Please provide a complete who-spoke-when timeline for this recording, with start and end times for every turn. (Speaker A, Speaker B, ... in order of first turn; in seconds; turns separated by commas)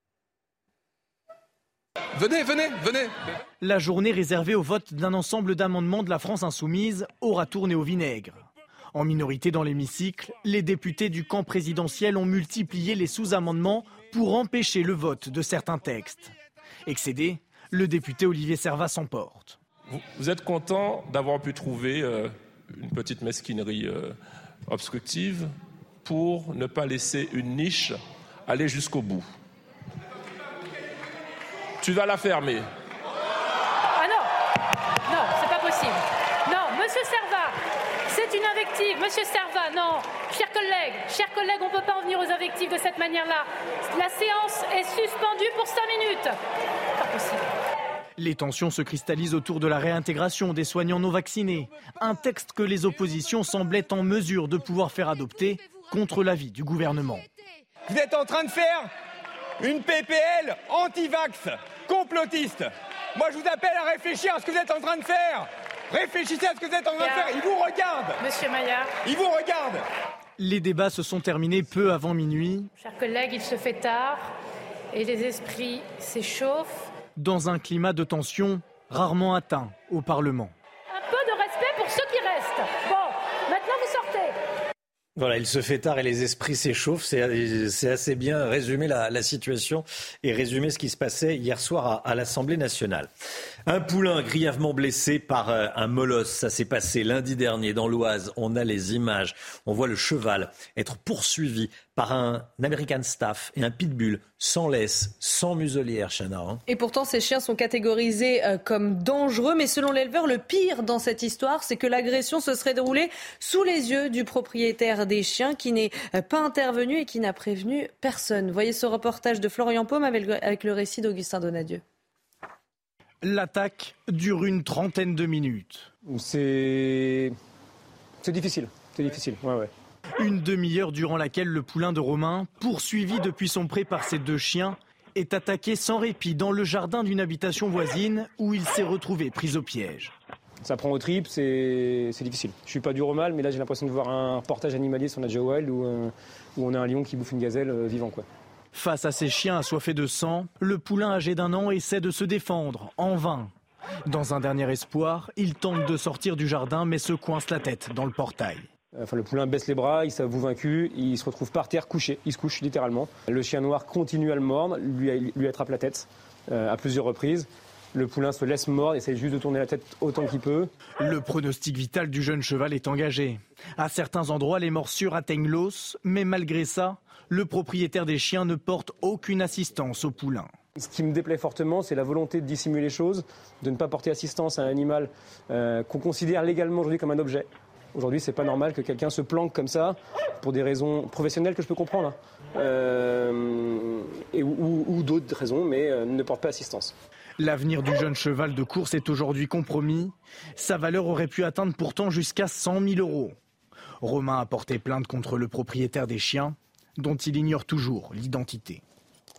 Speaker A: 3.6-16.3, Speaker A: 16.9-19.6, Speaker B: 19.9-25.5, Speaker B: 26.0-29.3, Speaker B: 31.8-32.7, Speaker C: 33.9-34.3, Speaker C: 35.0-46.4, Speaker C: 47.0-47.5, Speaker A: 48.2-57.2, Speaker D: 57.9-58.9, Speaker D: 59.6-68.2, Speaker C: 67.0-67.3, Speaker C: 68.2-68.9, Speaker D: 69.0-69.8, Speaker A: 70.4-72.7, Speaker C: 72.8-74.3, Speaker C: 74.9-76.7, Speaker A: 77.2-80.5, Speaker C: 80.9-84.3, Speaker E: 85.2-93.1, Speaker E: 93.7-106.6, Speaker F: 106.7-121.8, Speaker A: 123.2-125.9, Speaker G: 126.0-127.3, Speaker G: 128.2-129.7, Speaker A: 130.2-140.1, Speaker G: 140.6-148.2, Speaker A: 148.7-153.5, Speaker A: 154.1-158.7, Speaker G: 159.0-170.7, Speaker A: 171.0-180.5, Speaker G: 180.8-196.9, Speaker A: 197.4-203.3, Speaker A: 204.0-208.8